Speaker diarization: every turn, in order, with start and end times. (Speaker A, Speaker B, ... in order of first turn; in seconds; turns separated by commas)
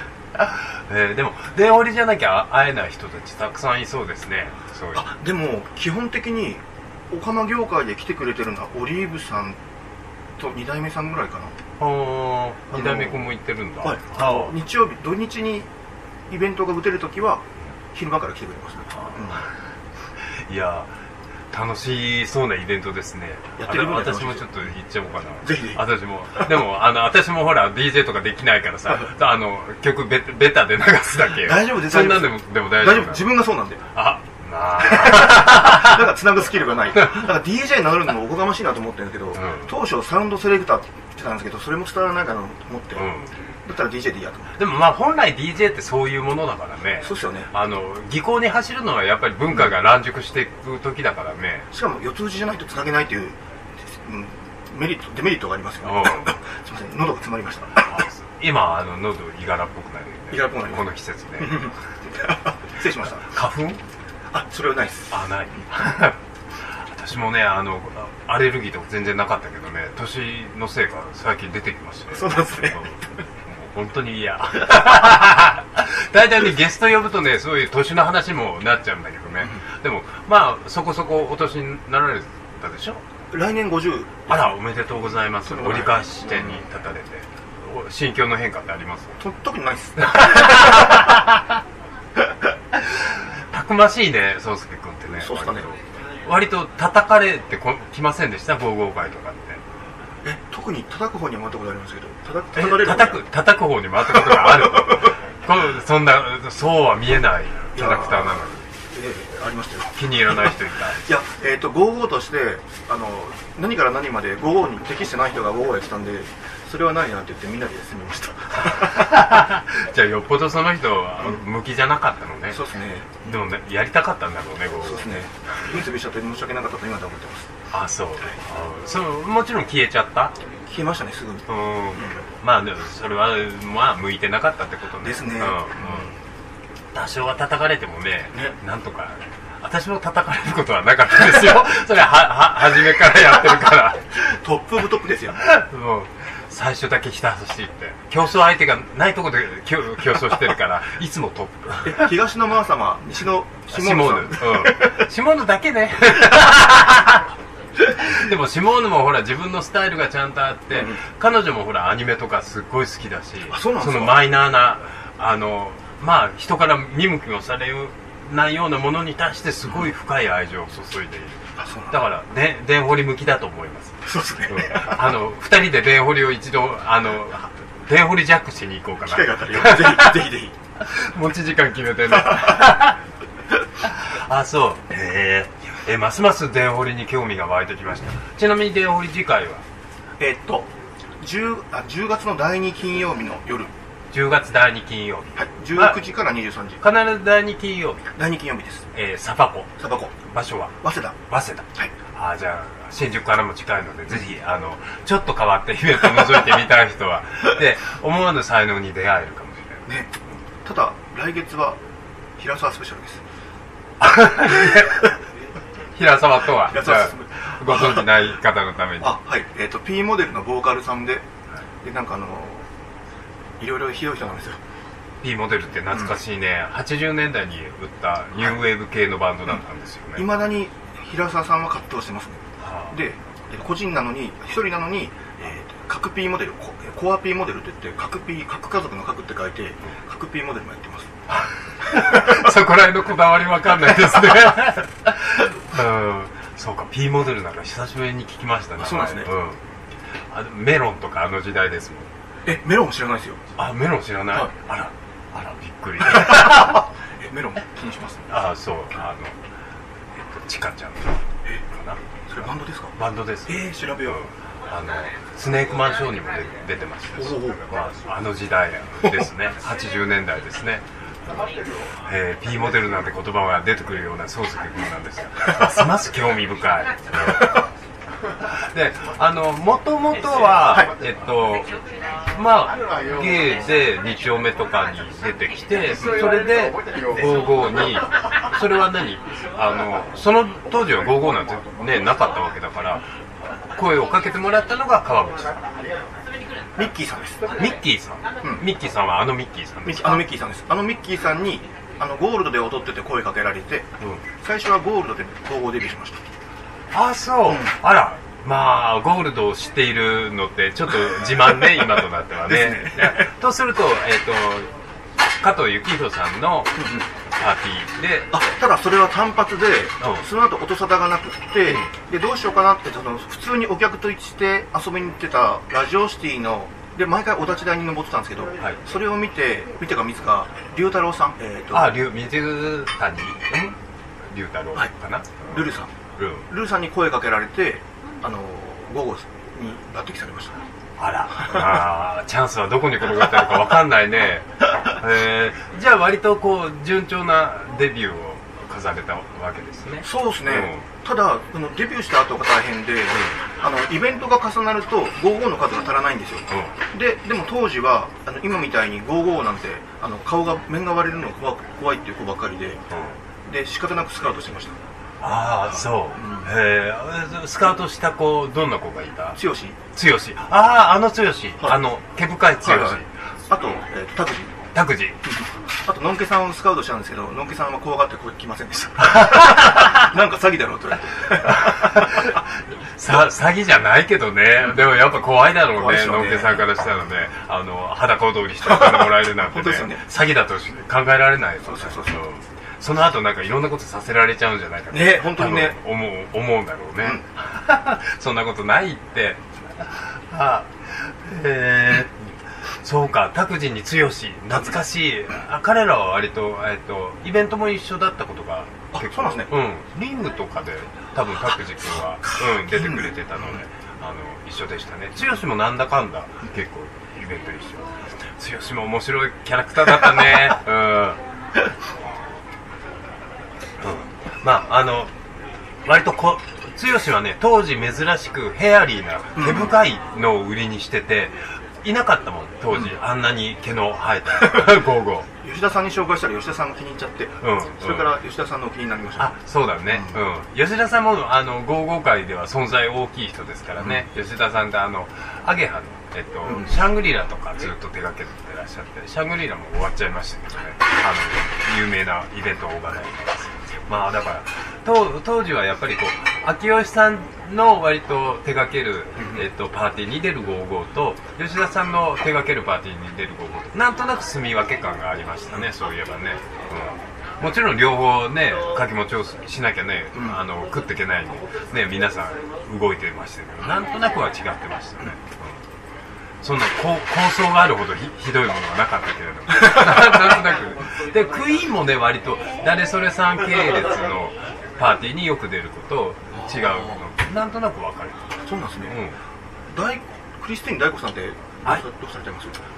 Speaker A: 0.4-5.0, Speaker B: 4.9-9.6, Speaker B: 10.4-11.6, Speaker A: 11.8-14.5, Speaker B: 12.7-13.3, Speaker B: 13.8-15.7, Speaker B: 16.3-19.4, Speaker A: 18.9-19.5, Speaker A: 20.4-20.9, Speaker A: 21.5-33.4, Speaker B: 23.6-24.5, Speaker B: 25.4-25.8, Speaker B: 31.4-33.9, Speaker A: 33.9-36.0, Speaker B: 34.8-43.1, Speaker A: 37.0-37.2, Speaker A: 39.3-39.7, Speaker A: 42.9-43.5, Speaker B: 43.6-44.5, Speaker A: 44.6-51.7, Speaker B: 47.0-47.5, Speaker B: 51.7-58.0, Speaker A: 55.8-56.3, Speaker A: 57.7-61.7, Speaker B: 60.3-63.3, Speaker A: 63.2-63.8, Speaker B: 64.3-65.2, Speaker A: 65.1-83.0, Speaker B: 72.1-72.8, Speaker B: 83.3-84.4, Speaker A: 84.3-89.2, Speaker B: 85.4-86.6, Speaker B: 89.2-91.0, Speaker A: 90.0-91.6, Speaker A: 92.7-99.6, Speaker B: 95.2-95.7, Speaker B: 100.2-103.2, Speaker A: 102.5-108.7, Speaker B: 104.0-105.1, Speaker B: 107.7-119.3, Speaker A: 109.9-111.0, Speaker A: 118.6-122.6, Speaker B: 122.5-123.3, Speaker A: 123.2-125.3, Speaker B: 124.8-127.5, Speaker A: 127.7-130.3, Speaker B: 130.7-132.2, Speaker A: 131.5-136.2, Speaker B: 135.0-136.1, Speaker A: 136.9-144.2, Speaker B: 144.2-145.4, Speaker A: 145.3-152.1, Speaker B: 151.8-155.1, Speaker A: 153.7-157.3, Speaker A: 158.0-180.2, Speaker B: 163.5-164.2, Speaker B: 171.6-172.0, Speaker B: 174.0-175.1, Speaker B: 179.0-180.5, Speaker A: 180.8-183.0, Speaker B: 182.2-182.7, Speaker A: 183.8-189.6, Speaker B: 190.2-193.7, Speaker A: 194.1-196.0, Speaker B: 195.3-196.8, Speaker A: 196.8-198.1, Speaker B: 198.1-198.8, Speaker A: 198.9-199.7, Speaker B: 199.8-200.1, Speaker A: 200.2-209.9, Speaker B: 200.8-201.2, Speaker B: 210.6-211.8, Speaker B: 212.4-213.2, Speaker A: 214.0-215.1, Speaker B: 214.6-214.9, Speaker A: 215.9-219.1, Speaker B: 216.6-218.1, Speaker B: 219.0-221.2, Speaker B: 221.8-222.7, Speaker B: 223.6-224.6, Speaker A: 225.2-230.3, Speaker B: 230.2-241.1, Speaker A: 232.6-232.9, Speaker A: 241.3-249.6, Speaker B: 241.9-242.4, Speaker B: 248.8-249.3, Speaker A: 250.3-252.1, Speaker B: 252.4-253.4, Speaker A: 253.6-256.9, Speaker B: 256.0-258.4, Speaker A: 258.3-259.4, Speaker A: 260.1-262.0, Speaker B: 262.3-262.9, Speaker A: 262.9-277.5, Speaker B: 263.4-264.2, Speaker B: 267.1-267.6, Speaker A: 278.4-281.7, Speaker A: 282.2-293.0, Speaker A: 293.7-295.7, Speaker B: 296.8-297.5, Speaker A: 297.5-300.2, Speaker B: 299.8-306.2, Speaker A: 306.9-318.3, Speaker B: 307.4-307.8, Speaker B: 312.4-313.3, Speaker B: 316.8-317.1, Speaker B: 318.3-332.0, Speaker A: 331.7-333.7, Speaker A: 334.3-335.6, Speaker B: 335.5-335.9, Speaker A: 336.2-336.5, Speaker B: 336.5-340.6, Speaker A: 341.0-350.9, Speaker B: 341.4-341.7, Speaker B: 350.0-362.8, Speaker A: 362.9-363.2, Speaker B: 363.4-364.8, Speaker A: 365.2-369.4, Speaker B: 365.7-366.5, Speaker B: 369.4-369.8, Speaker A: 369.9-373.1, Speaker B: 372.6-374.6, Speaker A: 374.7-375.3, Speaker B: 375.2-382.4, Speaker A: 379.0-380.1, Speaker A: 381.4-421.2, Speaker B: 385.7-386.6, Speaker B: 388.7-390.0, Speaker B: 391.6-392.2, Speaker B: 394.9-395.8, Speaker B: 408.9-409.5, Speaker B: 412.3-413.6, Speaker A: 423.8-425.1, Speaker A: 425.8-435.3, Speaker B: 429.4-429.7, Speaker B: 434.4-434.8, Speaker B: 435.4-439.4, Speaker A: 437.4-438.1, Speaker A: 439.2-475.6, Speaker B: 439.9-440.2, Speaker B: 446.4-446.8, Speaker B: 459.2-459.4, Speaker B: 470.1-470.4, Speaker A: 476.4-489.2, Speaker B: 486.3-487.0, Speaker B: 488.4-489.0, Speaker B: 489.7-492.6